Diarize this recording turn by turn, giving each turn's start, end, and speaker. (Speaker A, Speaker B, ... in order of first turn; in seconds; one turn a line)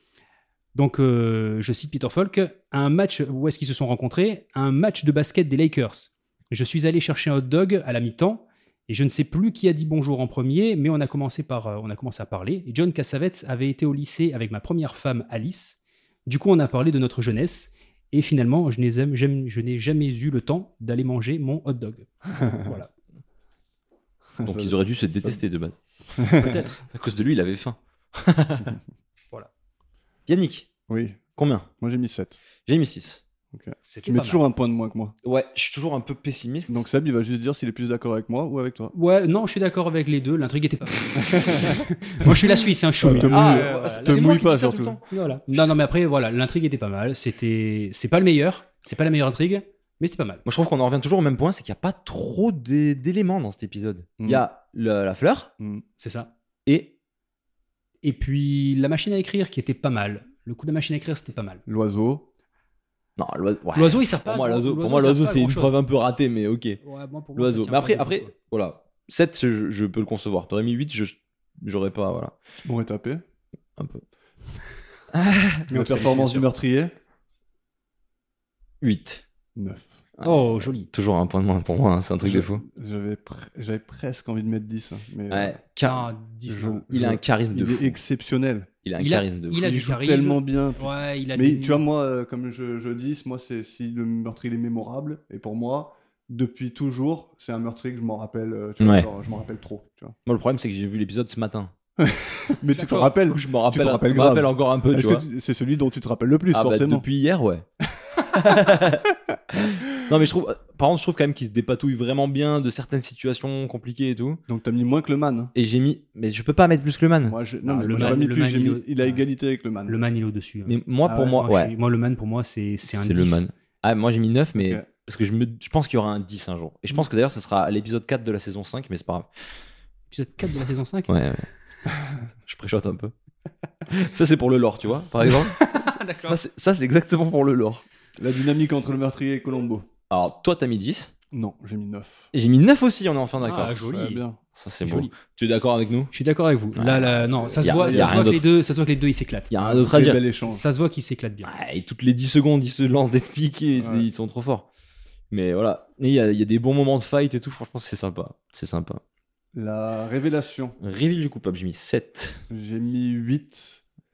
Speaker A: 0.8-22.9
Speaker B: 24.4-25.4
Speaker C: 24.4-25.8
Speaker B: 26.2-26.6
Speaker A: 26.4-26.8
Speaker C: 26.9-28.8
Speaker C: 30.3-30.7
Speaker B: 30.9-31.2
Speaker C: 31.4-31.7
Speaker B: 31.8-32.4
Speaker C: 32.7-33.2
Speaker B: 33.5-35.1
Speaker A: 33.9-34.4
Speaker C: 35.2-36.9
Speaker B: 36.7-38.9
Speaker A: 38.9-44.4
Speaker B: 41.4-41.8
Speaker B: 43.0-45.0
Speaker C: 43.1-45.7
Speaker A: 45.1-50.4
Speaker C: 50.5-55.5
Speaker B: 55.6-55.8
Speaker A: 56.0-56.3
Speaker C: 56.7-56.9
Speaker A: 58.0-61.6
Speaker B: 61.7-62.3
Speaker C: 63.2-66.8
Speaker A: 63.8-65.8
Speaker A: 66.8-68.3
Speaker C: 67.4-72.3
Speaker B: 72.6-73.2
Speaker C: 73.8-74.0
Speaker C: 75.1-76.5
Speaker B: 75.7-76.9
Speaker C: 78.8-79.2
Speaker B: 79.5-80.0
Speaker C: 80.2-82.6
Speaker A: 80.2-80.9
Speaker B: 82.2-85.6
Speaker C: 85.3-86.1
Speaker A: 85.8-86.8
Speaker B: 86.5-88.7
Speaker C: 86.9-88.0
Speaker C: 88.8-89.8
Speaker A: 89.0-91.8
Speaker B: 89.5-100.2
Speaker C: 98.8-99.1
Speaker C: 100.3-101.7
Speaker B: 102.0-107.0
Speaker A: 102.7-103.1
Speaker C: 103.2-105.3
Speaker C: 106.5-107.7
Speaker C: 108.2-114.4
Speaker B: 108.5-108.8
Speaker B: 114.5-115.5
Speaker C: 115.5-118.2
Speaker B: 117.2-120.0
Speaker A: 117.7-119.2
Speaker A: 119.9-123.4
Speaker C: 120.7-121.7
Speaker B: 121.1-121.4
Speaker C: 122.8-129.3
Speaker B: 124.5-124.9
Speaker A: 130.1-131.1
Speaker C: 131.1-131.5
Speaker C: 132.5-133.1
Speaker C: 133.9-137.8
Speaker A: 135.3-136.4
Speaker B: 138.2-139.9
Speaker C: 140.1-141.1
Speaker B: 141.3-142.3
Speaker C: 142.3-143.8
Speaker A: 143.4-144.2
Speaker B: 143.5-144.4
Speaker C: 144.6-146.1
Speaker A: 144.8-145.1
Speaker A: 146.1-149.5
Speaker C: 146.8-148.4
Speaker B: 147.1-148.4
Speaker C: 149.5-150.2
Speaker B: 149.6-150.6
Speaker A: 150.5-151.5
Speaker C: 151.4-154.7
Speaker B: 153.8-154.1
Speaker C: 155.3-159.0
Speaker B: 159.6-160.8
Speaker C: 160.8-162.4
Speaker B: 162.5-163.8